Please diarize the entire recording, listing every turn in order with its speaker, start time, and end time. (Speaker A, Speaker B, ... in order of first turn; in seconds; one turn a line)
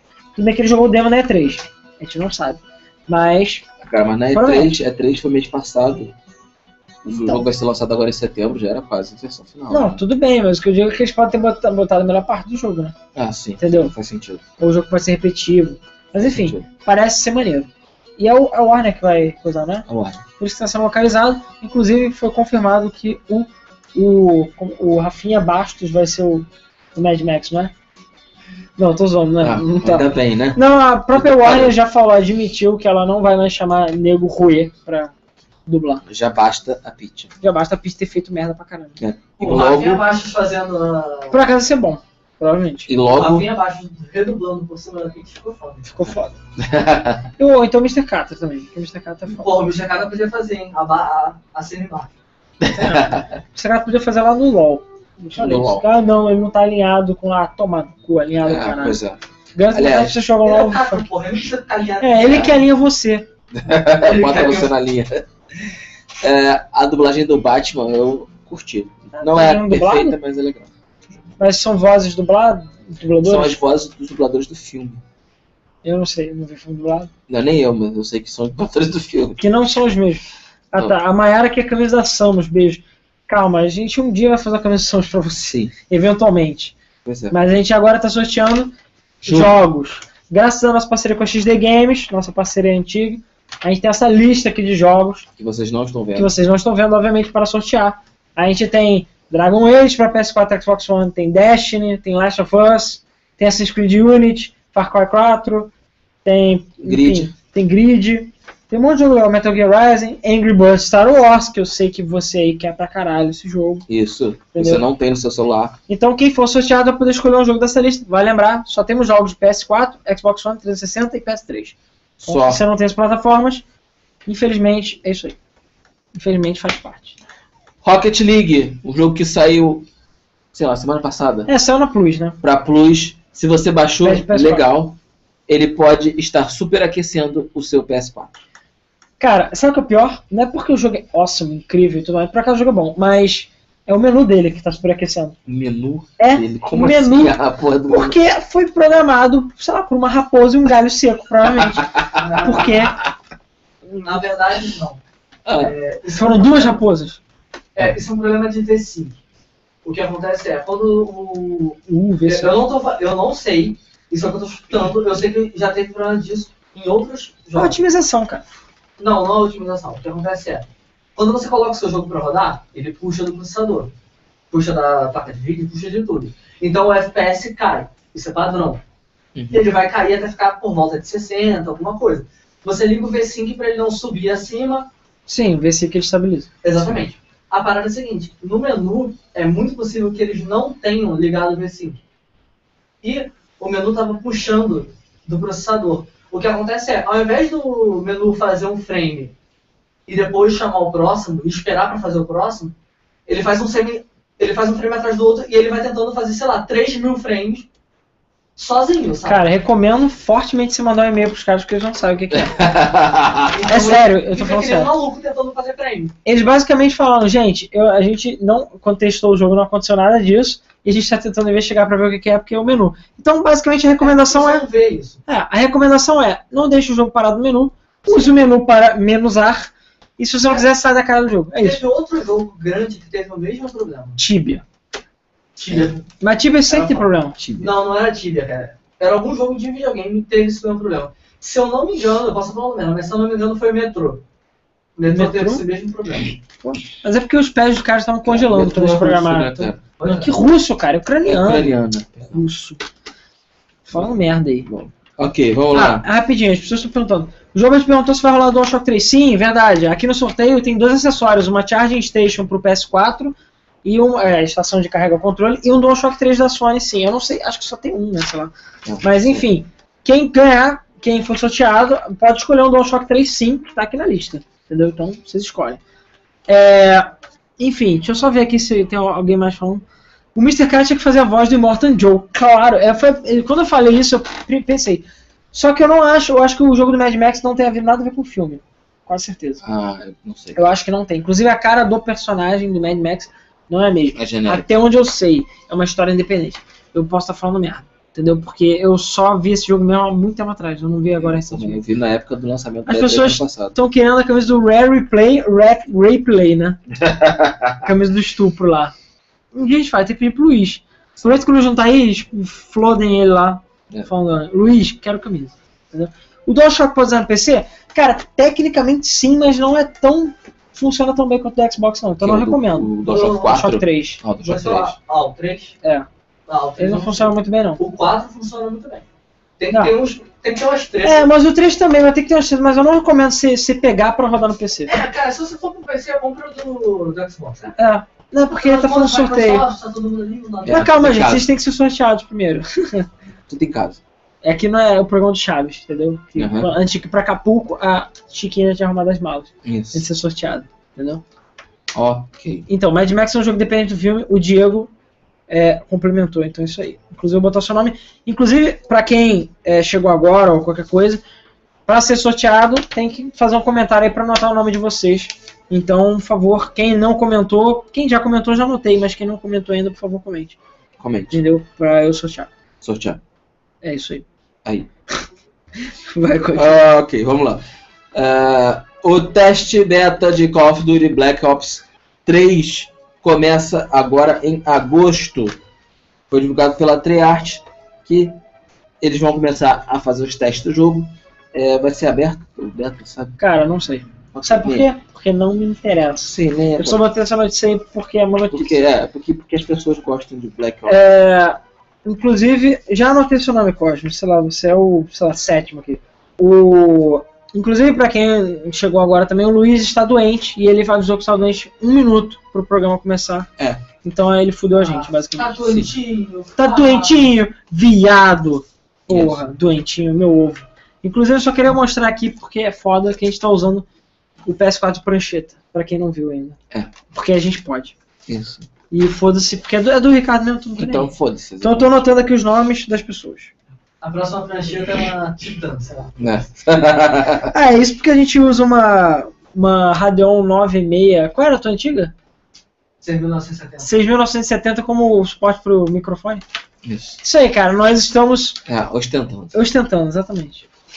Speaker A: 0.4-3.7
Speaker B: 3.9-6.2
Speaker A: 4.3-4.8
Speaker B: 7.0-10.0
Speaker A: 7.1-7.5
Speaker A: 9.7-12.9
Speaker B: 13.2-14.4
Speaker A: 13.6-13.9
Speaker A: 14.6-19.9
Speaker B: 16.2-16.6
Speaker B: 19.9-20.2
Speaker A: 20.4-27.7
Speaker A: 28.8-35.1
Speaker B: 29.4-31.8
Speaker A: 35.7-36.0
Speaker B: 36.1-37.3
Speaker A: 37.4-39.0
Speaker B: 39.0-40.0
Speaker C: 39.4-41.5
Speaker A: 41.3-42.9
Speaker B: 42.9-43.5
Speaker C: 43.1-45.9
Speaker A: 45.9-46.4
Speaker B: 46.6-47.3
Speaker A: 47.4-49.6
Speaker C: 49.3-52.1
Speaker B: 52.6-53.3
Speaker A: 52.7-59.0
Speaker B: 55.4-55.9
Speaker B: 58.4-59.2
Speaker A: 59.5-61.1
Speaker B: 59.7-60.2
Speaker C: 60.4-62.5
Speaker A: 62.0-63.3
Speaker B: 62.3-62.5
Speaker B: 63.5-65.2
Speaker C: 64.0-64.7
Speaker B: 66.2-70.7
Speaker A: 69.1-70.2
Speaker A: 71.4-73.6
Speaker B: 73.2-75.0
Speaker A: 75.8-77.1
Speaker B: 77.3-79.4
Speaker A: 79.4-86.8
Speaker B: 87.0-87.4
Speaker A: 87.3-95.3
Speaker B: 89.2-89.6
Speaker B: 95.4-96.3
Speaker A: 96.2-105.7
Speaker A: 106.2-113.9
Speaker B: 106.8-107.3
Speaker B: 113.9-115.8
Speaker A: 114.5-114.8
Speaker A: 115.9-123.6
Speaker B: 122.2-122.6
Speaker A: 124.3-125.4
Speaker A: 126.2-127.2
Speaker B: 127.8-129.9
Speaker B: 130.5-131.5
Speaker A: 131.5-132.4
Speaker B: 132.4-138.3
Speaker A: 134.0-134.7
Speaker A: 139.2-145.4
Speaker B: 145.5-148.2
Speaker A: 146.2-147.4
Speaker A: 147.9-153.0
Speaker B: 151.7-152.2
Speaker C: 152.2-152.9
Speaker C: 154.0-155.0
Speaker B: 155.5-155.7
Speaker C: 155.6-156.8
Speaker A: 156.1-157.2
Speaker C: 157.8-159.2
Speaker C: 159.8-167.8
Speaker A: 161.9-162.6
Speaker A: 167.6-168.4
Speaker C: 169.0-173.9
Speaker C: 174.5-178.8
Speaker B: 179.3-179.7
Speaker C: 179.5-184.9
Speaker A: 185.3-186.5
Speaker C: 186.6-192.0
Speaker B: 186.8-187.0
Speaker C: 193.0-199.3
Speaker C: 200.1-202.7
Speaker C: 203.3-207.7
Speaker C: 208.6-209.5
Speaker A: 209.3-212.7
Speaker B: 212.3-213.6
Speaker C: 213.5-216.2
Speaker A: 213.7-214.9
Speaker A: 216.2-224.7
Speaker C: 224.0-225.2
Speaker A: 225.3-231.8
Speaker C: 228.1-228.3
Speaker C: 231.6-234.2
Speaker A: 234.2-234.6
Speaker C: 235.6-236.1
Speaker A: 236.2-237.4
Speaker C: 236.7-237.1
Speaker B: 237.4-237.7
Speaker C: 237.6-244.2
Speaker C: 245.0-246.4
Speaker A: 245.1-245.6
Speaker A: 246.6-251.8
Speaker B: 248.2-249.8
Speaker C: 250.0-250.3
Speaker B: 251.2-252.4
Speaker A: 252.3-252.8
Speaker A: 253.9-254.7
Speaker B: 254.7-256.1
Speaker A: 255.7-275.8
Speaker B: 268.9-269.4
Speaker A: 276.5-279.8
Speaker A: 280.4-289.6
Speaker B: 289.6-290.6
Speaker A: 290.6-301.8
Speaker B: 294.1-294.7
Speaker B: 301.2-303.8
Speaker A: 302.9-306.8
Speaker B: 306.9-307.8
Speaker A: 307.8-308.9
Speaker A: 309.5-324.2
Speaker B: 322.2-324.9
Speaker C: 323.1-323.6
Speaker C: 324.4-325.8
Speaker C: 326.5-329.1
Speaker A: 326.8-327.8
Speaker C: 329.6-331.3
Speaker A: 331.0-335.0
Speaker C: 334.9-337.8
Speaker A: 337.8-339.6
Speaker C: 338.5-340.9
Speaker B: 340.6-341.5
Speaker A: 340.7-343.1
Speaker B: 343.5-344.0
Speaker A: 344.4-351.2
Speaker B: 346.4-346.7
Speaker B: 349.6-350.1
Speaker B: 351.9-352.7
Speaker A: 352.7-354.9
Speaker A: 355.5-361.2
Speaker A: 361.9-370.6
Speaker B: 371.0-371.4
Speaker A: 371.3-372.5
Speaker B: 372.8-373.2
Speaker A: 373.8-374.2
Speaker A: 375.9-376.8
Speaker B: 376.5-377.6
Speaker B: 378.1-385.6
Speaker B: 386.3-388.4
Speaker B: 389.0-393.4
Speaker A: 393.4-398.8
Speaker B: 394.3-394.9
Speaker B: 396.2-397.0
Speaker B: 398.5-401.0
Speaker A: 400.9-413.5
Speaker B: 413.6-413.8
Speaker A: 414.0-415.6
Speaker C: 414.8-417.3
Speaker B: 415.7-415.9
Speaker A: 416.6-423.9
Speaker B: 419.1-419.5
Speaker A: 424.4-426.6
Speaker A: 427.1-428.0
Speaker B: 428.3-428.7
Speaker A: 428.9-433.5
Speaker B: 430.8-432.0
Speaker C: 434.0-436.3
Speaker B: 436.2-437.5
Speaker A: 437.5-442.1
Speaker C: 443.0-443.9
Speaker A: 443.8-446.4
Speaker B: 446.9-447.2
Speaker A: 447.2-448.6
Speaker B: 448.7-449.6
Speaker A: 449.5-450.7